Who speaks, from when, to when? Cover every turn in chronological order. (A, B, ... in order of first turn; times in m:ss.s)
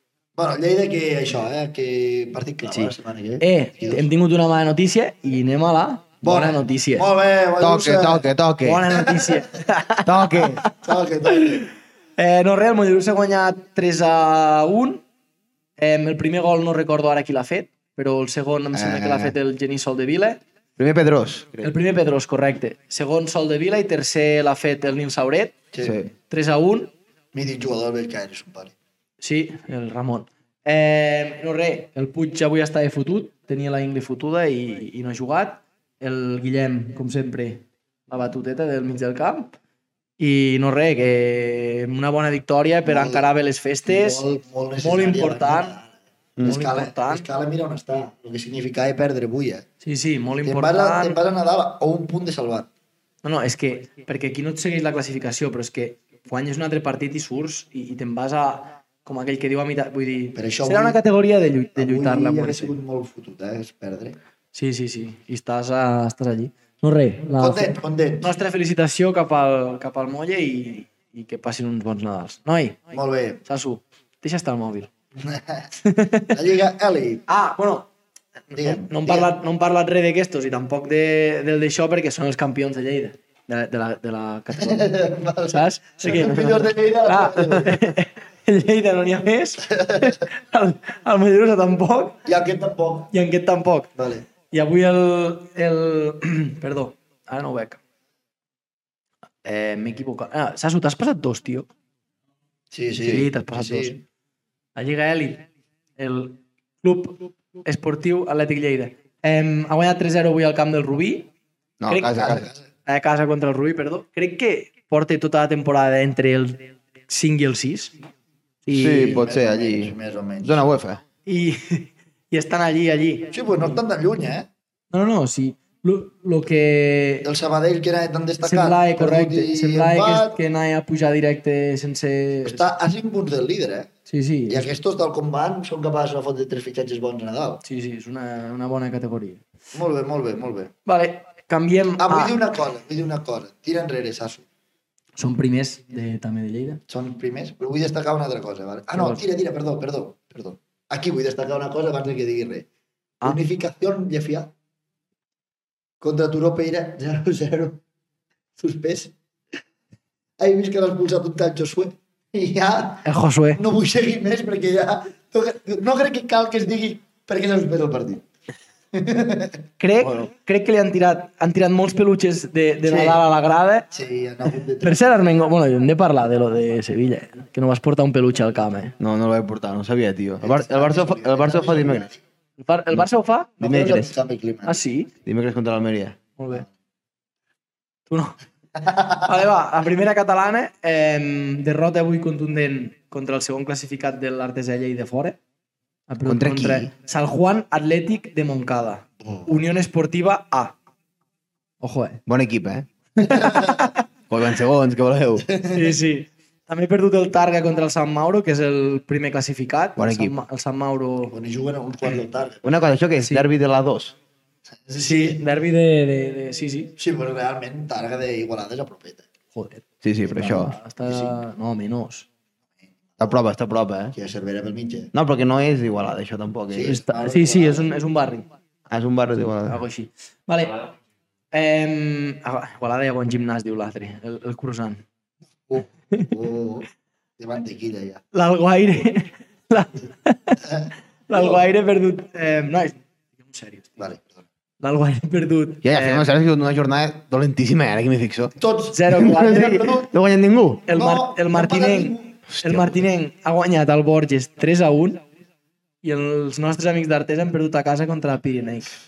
0:00.4-0:04.1 A
0:02.7-0:07.1 B
0:06.2-0:08.3 A
0:07.6-0:09.0 C
0:08.6-0:10.7 B
0:09.1-0:09.3 A
0:10.0-0:10.6 C
0:10.8-0:11.7 A
0:11.3-0:15.0 B
0:15.8-0:20.4 B
0:18.7-0:19.3 C
0:20.8-0:21.7 C
0:21.6-0:25.6 B
0:25.7-0:26.1 A
0:25.8-0:26.1 C
0:26.3-0:26.9 B
0:27.3-0:28.7 A
0:29.2-0:39.5 B
0:40.2-0:44.2 B
0:42.8-0:43.3 A
0:43.8-0:45.9 A
0:44.8-0:45.8 B
0:46.4-0:49.6 A
0:46.4-0:47.2 B
0:49.8-0:51.2 B
0:50.4-0:52.7 A
0:53.2-1:02.7 B
1:00.3-1:01.0 A
1:01.7-1:04.2 A
1:04.5-1:12.9 B
1:07.2-1:08.3 A
1:12.9-1:13.4 A
1:13.4-1:14.9 B
1:15.2-1:15.7 A
1:15.8-1:16.3 B
1:16.3-1:17.2 A
1:17.3-1:17.9 B
1:18.5-1:19.3 A
1:18.5-1:32.2 B
1:24.6-1:27.8 A
1:29.7-1:30.2 A
1:32.2-1:33.1 A
1:33.1-1:33.9 B
1:34.0-1:34.2 A
1:34.5-1:37.8 B
1:39.4-1:41.7 B
1:42.7-1:44.0 A
1:43.0-1:43.9 B
1:44.8-1:45.4 B
1:46.0-1:51.3 B
1:51.8-1:52.5 C
1:51.9-1:58.0 B
1:52.2-1:52.6 A
1:58.6-1:59.2 B
1:58.7-2:01.0 C
1:58.8-2:00.6 A
2:01.2-2:03.7 B
2:03.3-2:04.5 A
2:04.9-2:07.3 B
2:07.2-2:10.3 A
2:08.4-2:12.6 B
2:12.4-2:13.9 A
2:14.1-2:14.7 B
2:14.5-2:17.6 A
2:17.6-2:19.4 B
2:19.7-2:20.7 A
2:20.8-2:22.4 B
2:22.0-2:24.4 A
2:25.2-2:26.8 B
2:26.9-2:32.7 A
2:29.0-2:29.2 B
2:33.2-2:34.5 A
2:36.0-2:37.8 A
2:38.6-2:39.1 A
2:40.4-2:48.2 A
2:43.0-2:43.6 B
2:48.9-2:49.6 A
2:49.8-2:53.9 B
2:52.8-2:53.2 A
2:53.9-2:55.2 A
2:54.8-2:58.9 B
2:59.0-3:02.1 C
3:00.4-3:02.2 A
3:02.6-3:03.5 B
3:03.6-3:04.8 A
3:03.6-3:04.1 C
3:04.6-3:05.1 B
3:05.2-3:06.2 C
3:06.4-3:06.6 B
3:08.1-3:08.4 B
3:08.8-3:09.2 A
3:09.0-3:15.4 B
3:16.1-3:20.8 B
3:16.2-3:16.9 C
3:19.2-3:19.6 A
3:21.8-3:22.2 B
3:22.3-3:22.9 C
3:23.2-3:24.0 B
3:23.2-3:23.9 A
3:24.3-3:25.5 C
3:25.5-3:25.9 A
3:25.7-3:31.3 B
3:30.0-3:30.4 C
3:31.3-3:32.6 A
3:32.6-3:34.2 C
3:34.8-3:35.4 A
3:35.0-3:36.9 B
3:37.0-3:39.2 A
3:39.5-3:42.3 B
3:40.0-3:40.8 C
3:41.0-3:41.4 A
3:43.2-3:44.1 C
3:44.1-3:45.1 A
3:45.1-3:46.9 C
3:46.7-3:47.9 A
3:46.8-3:48.5 B
3:48.9-3:49.8 C
3:49.6-3:50.9 B
3:51.5-3:55.0 B
3:55.7-3:56.9 A
3:57.4-3:58.2 A
3:58.3-4:00.6 B
4:00.6-4:01.6 A
4:01.3-4:04.0 B
4:04.0-4:04.4 A
4:04.8-4:06.3 B
4:05.8-4:08.5 C
4:08.6-4:10.1 A
4:08.9-4:10.0 B
4:09.1-4:10.9 C
4:10.9-4:15.2 B
4:10.9-4:12.3 A
4:12.5-4:13.0 C
4:16.0-4:18.9 B